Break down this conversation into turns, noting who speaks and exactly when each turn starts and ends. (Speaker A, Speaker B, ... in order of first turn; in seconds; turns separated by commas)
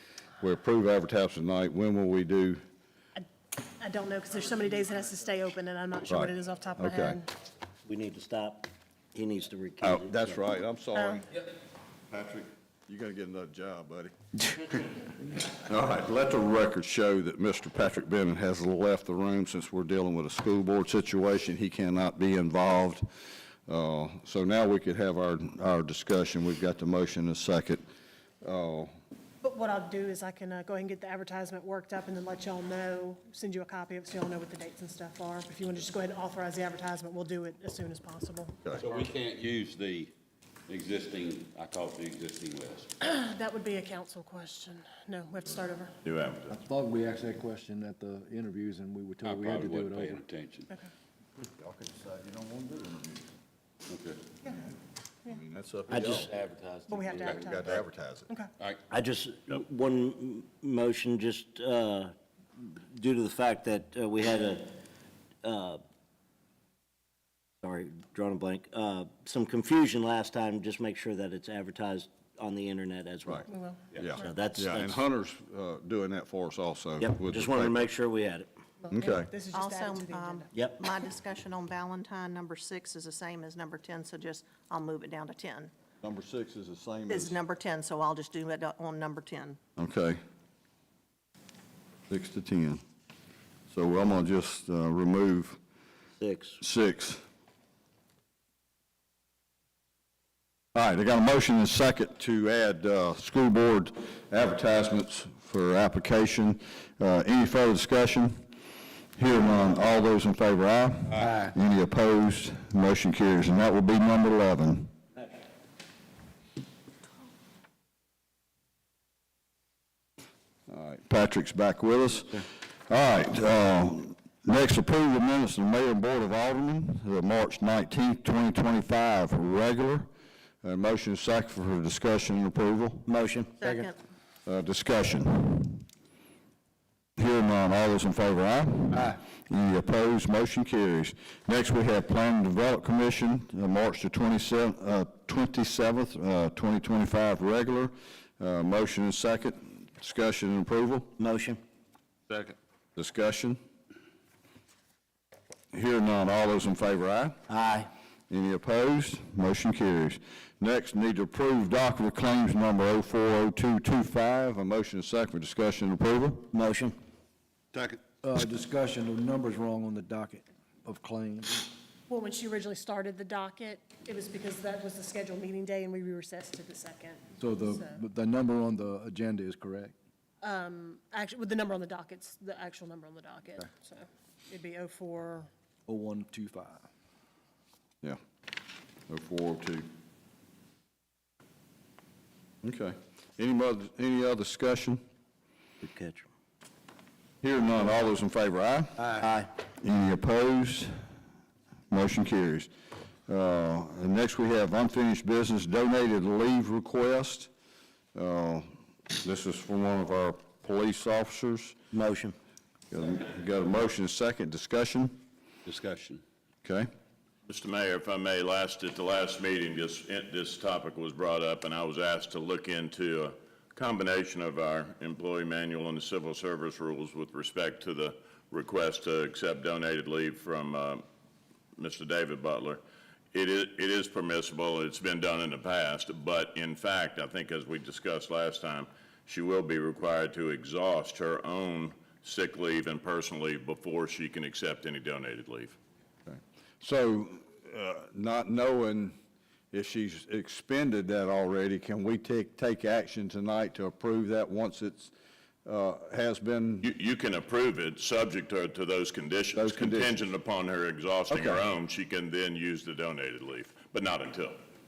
Speaker A: 0.4-2.6, Speaker B: 3.8-7.3, Speaker A: 6.1-7.2, Speaker C: 7.9-10.4, Speaker A: 9.8-11.3, Speaker B: 10.9-11.2, Speaker A: 12.1-14.1, Speaker A: 15.5-23.1, Speaker A: 23.7-27.8, Speaker A: 28.4-28.9, Speaker B: 29.4-38.6, Speaker D: 38.8-40.1, Speaker D: 40.7-42.9, Speaker B: 43.0-46.0, Speaker E: 46.0-46.5, Speaker F: 46.5-50.2, Speaker D: 49.2-50.7, Speaker A: 51.6-53.2, Speaker D: 53.9-54.3, Speaker A: 55.3-56.3, Speaker C: 55.9-56.3, Speaker D: 56.3-57.5, Speaker B: 56.9-57.8, Speaker A: 57.3-58.3, Speaker C: 58.9-64.8, Speaker C: 65.4-65.8, Speaker C: 67.6-73.5, Speaker B: 73.5-74.2, Speaker A: 74.0-77.8, Speaker C: 74.2-75.0, Speaker C: 77.0-78.5, Speaker B: 78.8-80.5, Speaker A: 78.9-79.3, Speaker G: 79.5-85.7, Speaker C: 80.5-80.8, Speaker A: 86.0-87.4, Speaker G: 87.1-89.6, Speaker A: 89.8-90.2, Speaker A: 92.1-92.8, Speaker A: 93.7-95.6, Speaker C: 96.2-96.6, Speaker A: 96.6-97.2, Speaker A: 100.8-108.5, Speaker A: 109.2-114.9, Speaker A: 120.7-130.1, Speaker A: 130.6-133.1, Speaker C: 133.1-133.7, Speaker G: 133.6-134.0, Speaker A: 134.5-135.8, Speaker A: 137.2-151.1, Speaker C: 151.2-151.6, Speaker A: 153.0-153.6, Speaker A: 155.7-157.4, Speaker C: 157.5-157.9, Speaker A: 158.3-166.5, Speaker C: 166.5-167.0, Speaker D: 167.7-168.0, Speaker F: 168.2-171.7, Speaker B: 172.1-178.0, Speaker F: 177.3-179.9, Speaker B: 180.4-185.5, Speaker F: 185.9-186.8, Speaker A: 189.1-189.9, Speaker A: 192.6-195.0, Speaker C: 195.8-196.3, Speaker A: 197.4-199.0, Speaker C: 199.0-199.5, Speaker A: 199.8-200.9, Speaker A: 201.9-202.7, Speaker A: 203.3-207.5, Speaker A: 208.2-208.7, Speaker A: 209.2-211.8, Speaker C: 211.9-212.3, Speaker A: 212.9-215.2, Speaker D: 215.7-216.2, Speaker A: 216.6-216.9, Speaker E: 217.5-231.0, Speaker E: 231.8-232.8, Speaker E: 233.3-245.8, Speaker A: 246.3-249.2, Speaker A: 249.7-255.1, Speaker A: 255.7-256.9, Speaker E: 256.8-264.6, Speaker A: 259.6-260.2, Speaker A: 261.3-261.6